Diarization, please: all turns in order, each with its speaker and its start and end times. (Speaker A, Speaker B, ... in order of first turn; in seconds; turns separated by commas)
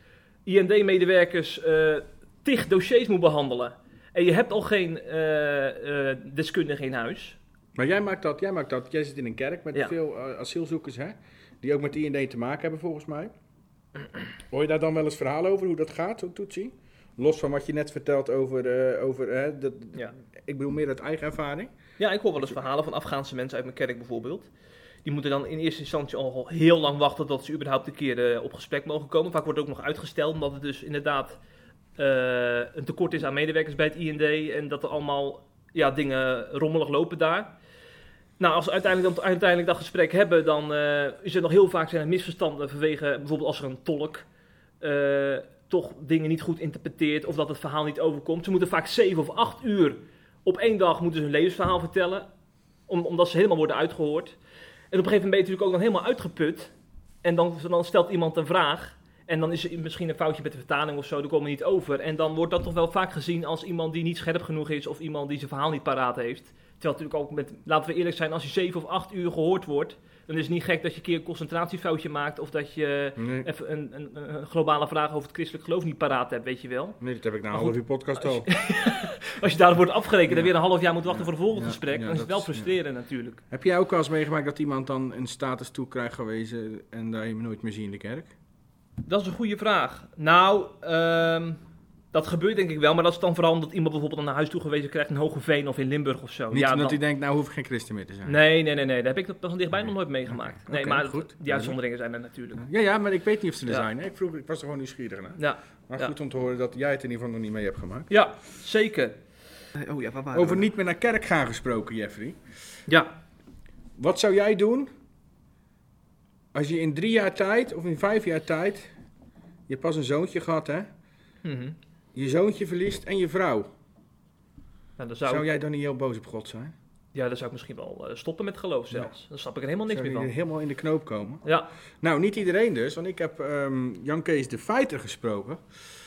Speaker A: 0.4-7.4, Speaker B: 7.8-13.3, Speaker B: 14.5-21.7, Speaker A: 22.0-24.5, Speaker A: 25.0-31.4, Speaker A: 32.0-37.5, Speaker A: 38.4-44.2, Speaker A: 44.8-52.3, Speaker A: 52.9-54.4, Speaker A: 54.9-77.0, Speaker B: 73.2-73.5, Speaker B: 77.0-78.5, Speaker A: 77.5-83.4, Speaker B: 80.3-80.5, Speaker B: 81.1-82.7, Speaker B: 83.5-88.3, Speaker A: 89.0-91.6, Speaker A: 92.1-97.0, Speaker B: 96.5-98.4, Speaker A: 98.2-102.6, Speaker B: 99.8-101.8, Speaker B: 102.5-108.1, Speaker A: 105.3-106.1, Speaker A: 108.1-109.2, Speaker A: 109.8-110.6, Speaker B: 110.3-112.4, Speaker A: 112.9-113.2, Speaker B: 114.0-114.9, Speaker B: 116.5-118.9, Speaker B: 119.7-120.9, Speaker A: 121.4-121.8, Speaker B: 122.1-123.7, Speaker A: 125.0-125.5, Speaker B: 125.2-126.7, Speaker A: 127.1-130.3, Speaker B: 129.9-131.4, Speaker A: 131.4-131.7, Speaker B: 132.0-135.6